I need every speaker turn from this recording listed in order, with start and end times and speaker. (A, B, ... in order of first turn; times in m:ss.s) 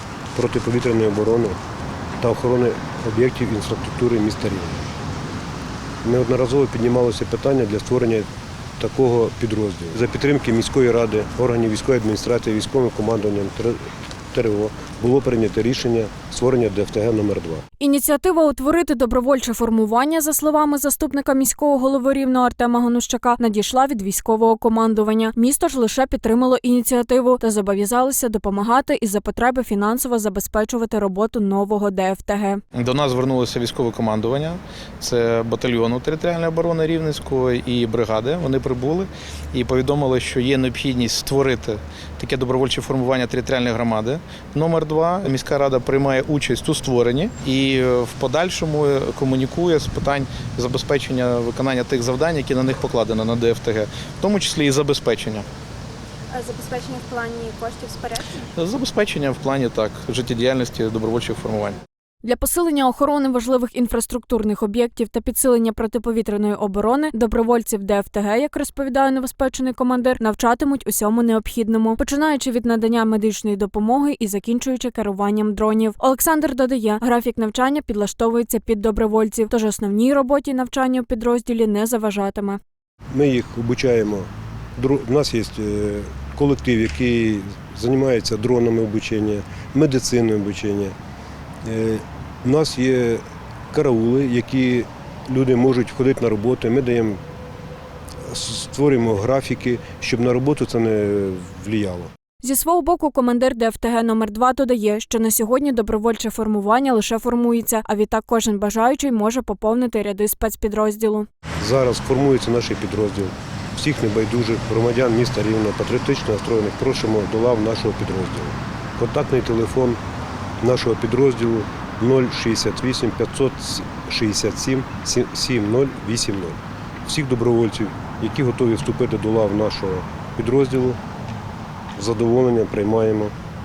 0:00.4-0:01.6 A
0:02.2-0:04.8 A
0:06.0-0:08.3 A
0:08.8-0:13.8 A
0:14.3-0:17.6 A
0:17.8-0:32.6 B
0:32.8-0:55.5 C
0:56.3-0:58.4 D
0:56.4-0:58.2 B
0:58.6-1:01.8 C
1:02.2-1:22.6 B
1:23.1-1:30.9 A
1:31.6-1:37.2 A
1:38.2-1:42.1 A
1:42.4-1:51.3 B
1:51.6-2:00.0 A
2:00.6-2:11.0 A
2:12.0-2:13.3 A